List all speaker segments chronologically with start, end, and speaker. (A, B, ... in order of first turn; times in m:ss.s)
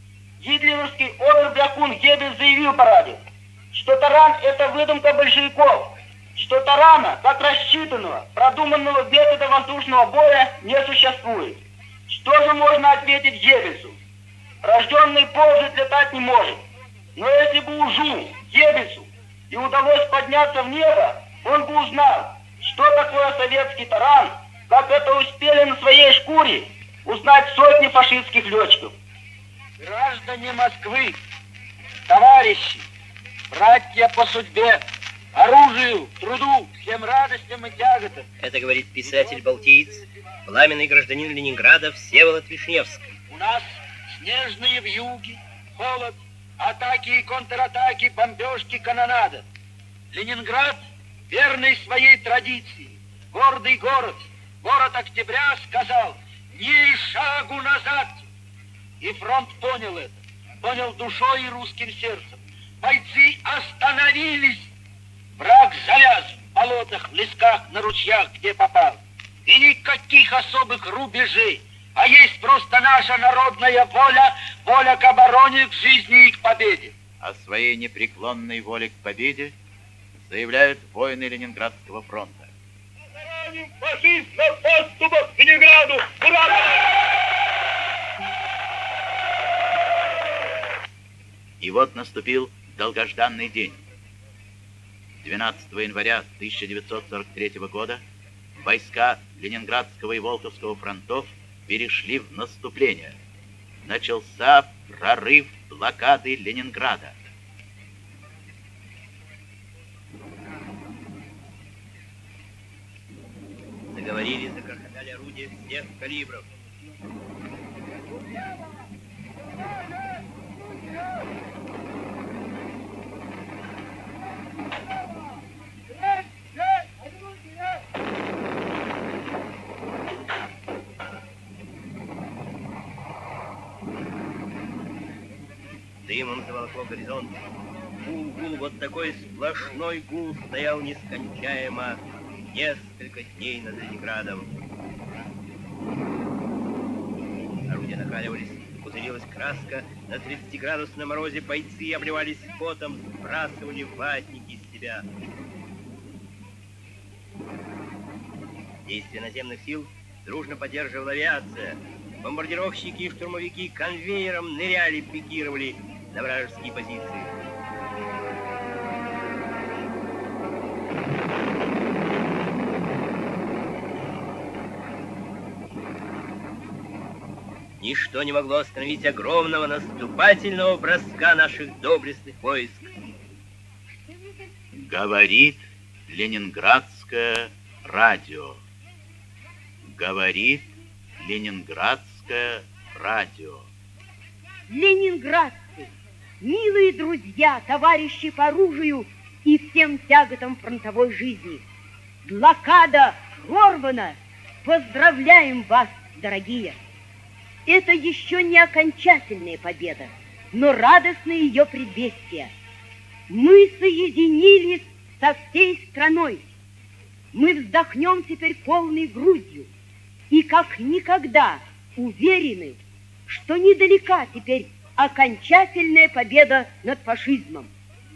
0:00.4-0:03.2 A
0:03.7-0:14.0 A
0:14.6-0:16.6 A
0:17.2-0:28.9 A
0:29.8-0:31.2 B
0:32.1-0:32.8 B
0:33.5-0:34.8 B
0:35.4-0:38.2 B
0:38.4-0:43.1 C
0:43.3-0:49.4 B
0:50.1-0:58.3 B
0:59.0-1:04.7 B
1:05.4-1:17.0 B
1:17.2-1:19.6 D
1:20.2-1:22.5 D
1:23.6-1:26.5 B
1:31.6-1:33.8 D
1:35.2-1:38.0 D
1:38.6-1:43.2 D
1:43.8-1:47.2 D
1:53.9-1:56.5 C
2:16.0-2:17.4 C
2:18.0-2:22.0 C
2:22.5-2:24.5 C
2:27.7-2:35.0 C
2:38.9-2:47.3 C
2:57.8-3:02.9 C
3:04.7-3:08.6 D
3:09.8-3:10.7 D
3:11.2-3:13.7 D
3:14.7-3:15.9 E
3:16.4-3:21.6 E
3:22.2-3:26.8 E
3:27.7-3:32.5 E
3:33.3-3:36.5 E
3:37.3-3:39.7 E
3:40.3-3:47.7 E